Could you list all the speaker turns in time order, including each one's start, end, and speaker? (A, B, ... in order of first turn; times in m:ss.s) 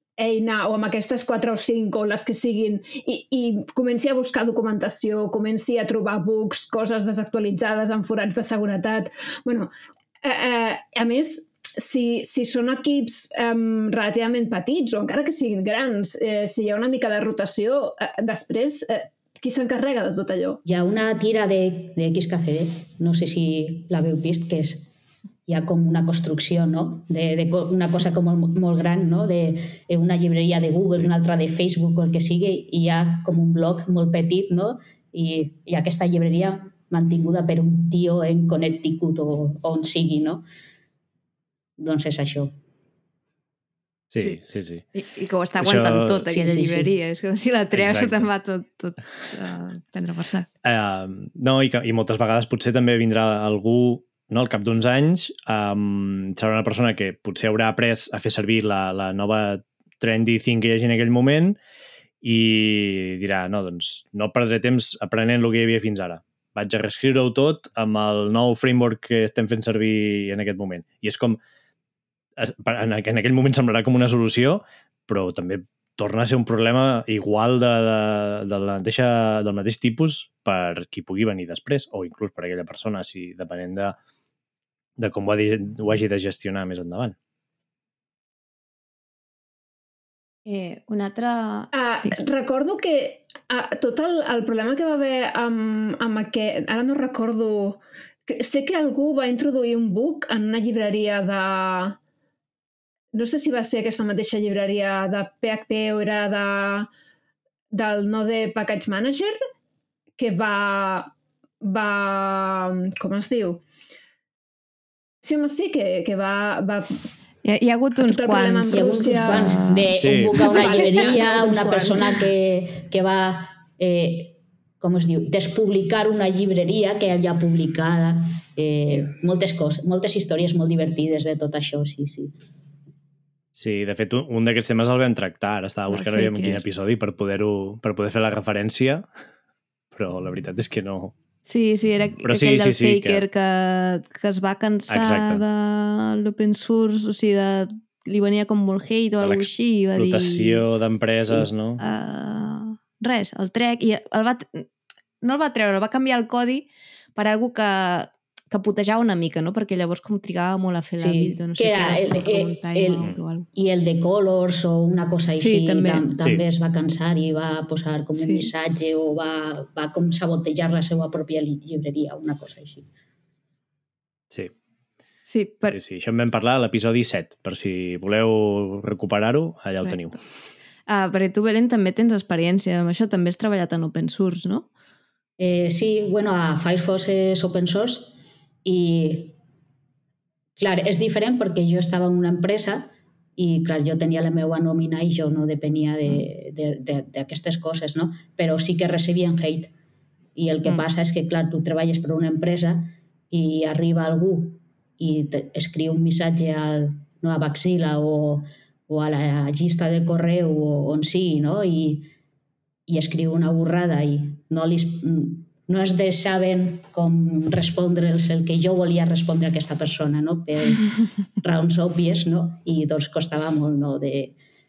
0:00.2-0:09.7 A
0:10.2-0:20.6 A
0:20.6-0:24.9 B
0:25.5-0:40.4 B
0:41.8-0:42.5 B
0:44.1-0:44.8 C
0:45.0-0:50.5 D
0:45.6-0:46.2 C
0:46.2-0:46.9 B
0:47.7-0:48.3 C
0:50.6-1:01.6 C
1:02.2-1:11.4 C
1:12.4-1:24.0 C
1:25.0-1:27.2 C
1:30.5-1:32.2 D
1:31.7-1:42.0 A
1:43.1-1:46.9 A
1:47.7-1:49.4 A
1:50.2-1:53.6 A
1:55.2-1:57.0 A
1:57.4-2:00.9 D
1:58.0-2:02.2 A
1:58.7-2:12.3 B
2:00.0-2:00.4 C
2:13.6-2:19.1 C
2:15.9-2:16.6 D
2:19.9-2:21.1 C
2:21.4-2:30.6 D
2:22.2-2:23.2 C
2:24.9-2:25.4 C
2:29.2-2:31.8 C
2:31.8-2:34.7 D
2:35.2-2:43.5 D
2:41.0-2:52.9 B
2:45.4-2:46.0 D
2:48.2-2:48.5 D
2:55.2-2:55.8 D
2:55.7-3:00.2 C
3:00.9-3:04.7 D
3:05.4-3:09.4 B
3:10.6-3:19.7 B
3:20.4-3:32.1 B
3:32.9-3:40.9 B
3:41.4-3:44.4 B